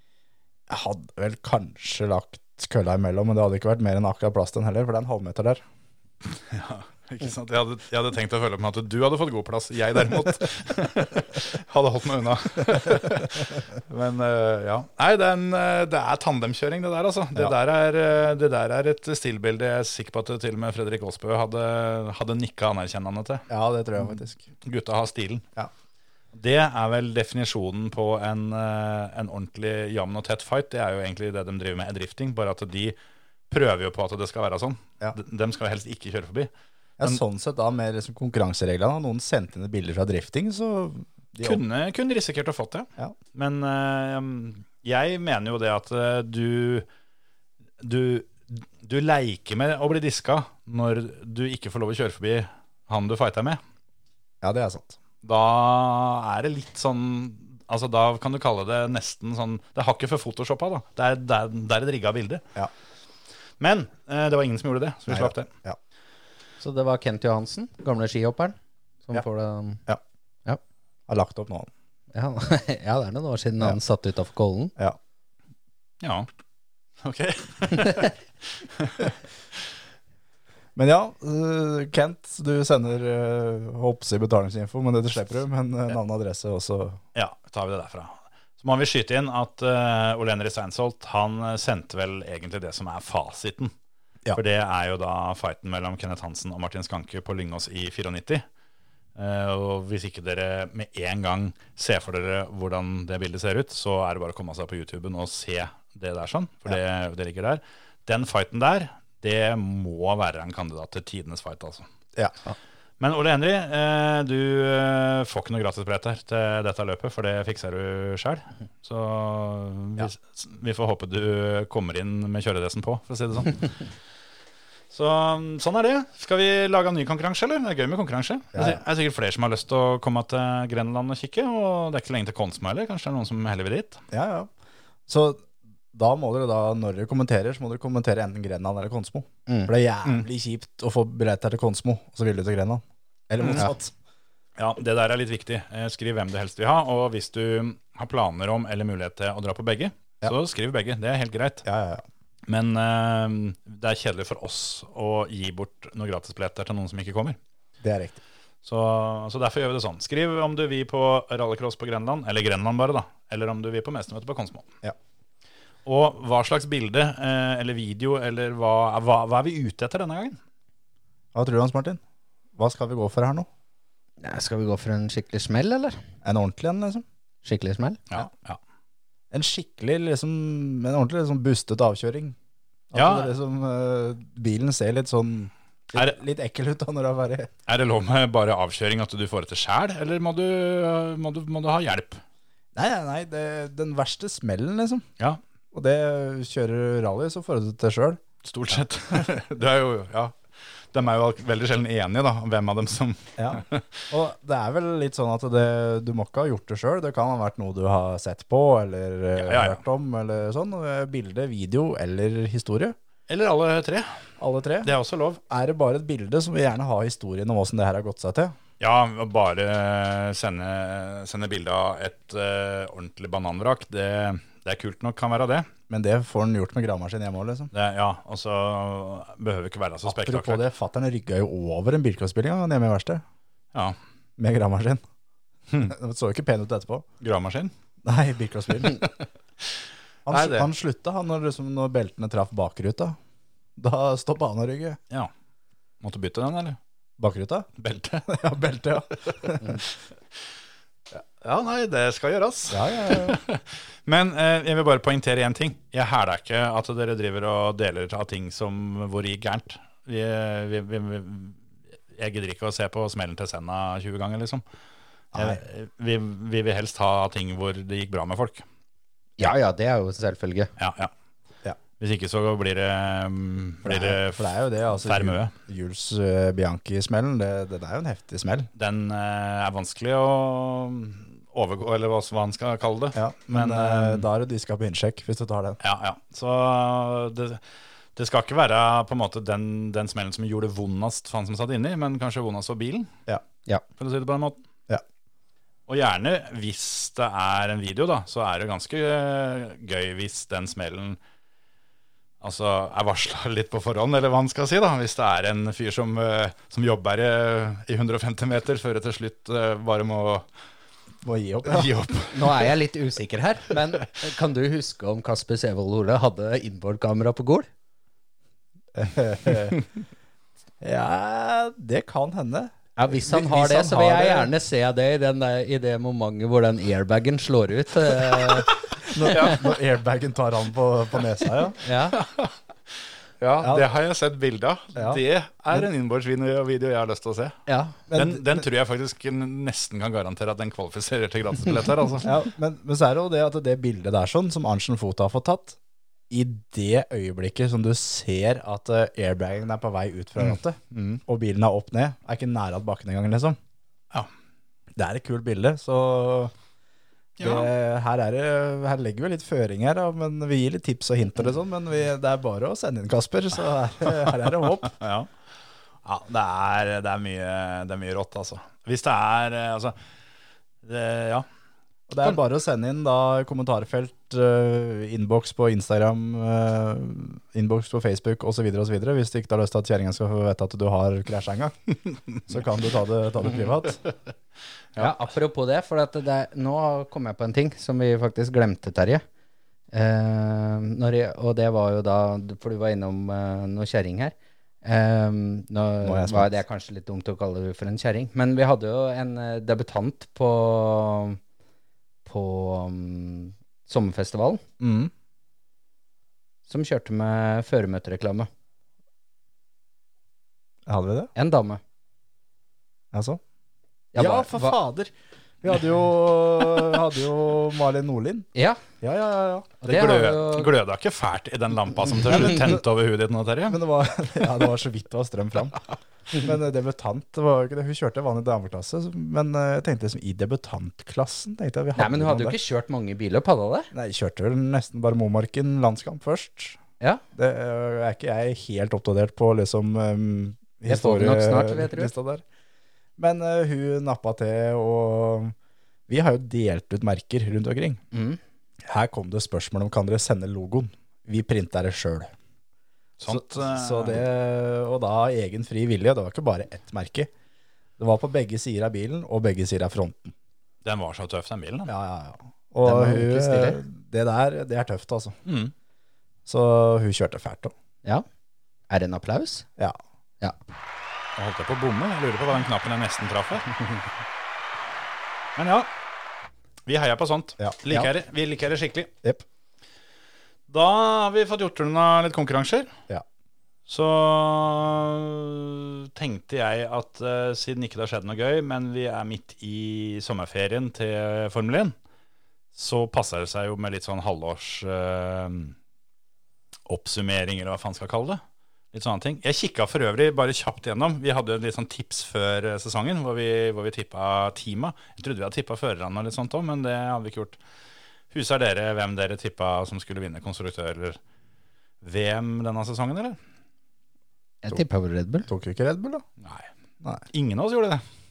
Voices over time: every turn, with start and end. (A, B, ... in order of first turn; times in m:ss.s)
0:00.7-0:05.6 A
0:06.3-0:23.4 B
0:23.5-0:24.4 A
0:24.6-0:25.4 B
0:26.3-0:33.0 B
0:33.5-0:36.5 B
0:37.0-0:41.6 A
0:41.4-0:46.9 B
0:47.8-0:53.6 B
0:54.4-0:55.0 A
0:55.2-1:02.4 B
1:03.6-1:05.5 B
1:05.1-1:05.8 A
1:06.6-1:09.8 C
1:11.1-1:11.7 A
1:12.1-1:14.7 C
1:16.0-1:16.3 B
1:17.0-1:19.2 B
1:20.8-1:27.0 A
1:27.2-1:33.7 B
1:34.3-1:38.4 B
1:39.2-1:51.9 B
1:53.0-2:03.7 B
2:04.9-2:14.0 B
2:08.5-2:08.8 A
2:14.1-2:14.5 A
2:15.1-2:23.9 A
2:23.4-2:23.7 B
2:24.6-2:31.6 B
2:31.6-2:32.0 A
2:32.5-2:37.4 B
2:37.8-2:38.2 A
2:38.6-2:44.7 B
2:45.9-2:50.4 B
2:51.3-2:52.0 A
2:52.6-2:53.5 A
2:54.2-2:56.0 C
2:56.2-2:57.0 A
2:57.4-2:58.0 C
2:58.1-2:58.6 B
2:59.3-3:02.4 A
3:02.9-3:07.5 A
3:02.9-3:03.3 B
3:07.7-3:12.2 B
3:12.7-3:15.1 A
3:15.7-3:18.2 A
3:18.4-3:20.4 B
3:20.9-3:24.0 B
3:23.4-3:33.0 A
3:29.4-3:29.8 B
3:33.3-3:34.2 B
3:34.4-3:34.9 A
3:34.8-3:35.4 B
3:35.5-3:38.6 A
3:38.8-3:45.7 B
3:45.9-3:47.7 A
3:47.7-3:50.6 B
3:50.1-3:53.2 A
3:54.4-3:55.0 A
3:55.8-3:57.1 A
3:57.2-3:57.7 B
3:58.0-3:59.0 A
4:00.3-4:03.2 A
4:00.3-4:00.7 B
4:03.8-4:05.0 A
4:06.0-4:06.8 B
4:07.2-4:07.7 A
4:07.8-4:08.3 B
4:08.3-4:09.8 A
4:11.4-4:21.6 B
4:12.7-4:13.4 A
4:22.1-4:24.6 B
4:25.3-4:25.6 A
4:25.3-4:28.6 B
4:29.4-4:30.7 C
4:30.8-4:31.1 B
4:32.0-4:35.5 B
4:33.8-4:38.7 A
4:38.8-4:44.3 B
4:43.2-4:45.8 A
4:45.8-4:47.6 B
4:48.2-4:53.1 B
4:54.0-4:54.6 B
4:55.9-5:01.2 B
5:02.4-5:10.5 B
5:11.2-5:11.9 A
5:11.7-5:12.7 B
5:12.3-5:17.7 C
5:19.0-5:19.8 A
5:20.8-5:24.5 A
5:23.0-5:28.8 C
5:29.1-5:31.8 A
5:29.3-5:29.6 B
5:31.8-5:32.2 C
5:32.1-5:32.5 B
5:33.4-5:37.6 B
5:33.6-5:33.9 A
5:35.0-5:35.2 A
5:37.7-5:38.0 C
5:38.1-5:38.6 A
5:38.1-5:42.3 B
5:42.2-5:45.8 A
5:46.3-5:53.6 A
5:50.4-5:51.2 B
5:55.0-5:56.5 A
5:57.4-5:57.7 B
5:57.4-6:05.0 A
6:04.8-6:05.3 B
6:06.0-6:10.0 B
6:10.8-6:11.5 B
6:12.1-6:21.8 A
6:22.5-6:24.0 A
6:25.0-6:29.2 C
6:29.9-6:41.4 C
6:36.0-6:36.6 A
6:42.3-6:44.6 C
6:44.8-6:45.1 A
6:46.7-6:48.5 C
6:50.9-6:51.3 A
6:51.4-6:51.8 C
6:53.1-6:53.4 A
6:54.1-6:54.8 C
6:54.2-6:58.5 A
6:58.6-6:58.8 C
6:59.0-6:59.8 A
6:59.8-7:00.7 C
6:59.8-7:03.8 B
7:03.7-7:12.6 A
7:12.0-7:13.9 C
7:13.9-7:16.8 A
7:17.4-7:22.4 A
7:20.9-7:22.1 C
7:23.2-7:25.5 A
7:26.1-7:28.0 A
7:28.1-7:28.4 C
7:28.8-7:32.3 A
7:33.2-7:34.2 B
7:33.3-7:37.3 A
7:38.0-7:40.4 A
7:40.8-7:41.9 B
7:41.9-7:45.4 A
7:42.8-7:43.8 C
7:45.5-7:45.7 B
7:46.5-7:47.7 A
7:48.9-7:49.7 C
7:51.4-7:53.8 B
7:55.6-7:55.9 B
7:56.9-7:59.1 B
7:57.6-7:58.1 A
8:00.7-8:02.9 B
8:03.9-8:12.0 B
8:12.8-8:15.8 B
8:16.9-8:18.4 B
8:18.9-8:27.6 B
8:28.3-8:31.2 B
8:32.0-8:33.4 B
8:34.6-8:35.5 C
8:35.5-8:36.2 A
8:36.4-8:36.7 B
8:37.3-8:38.0 B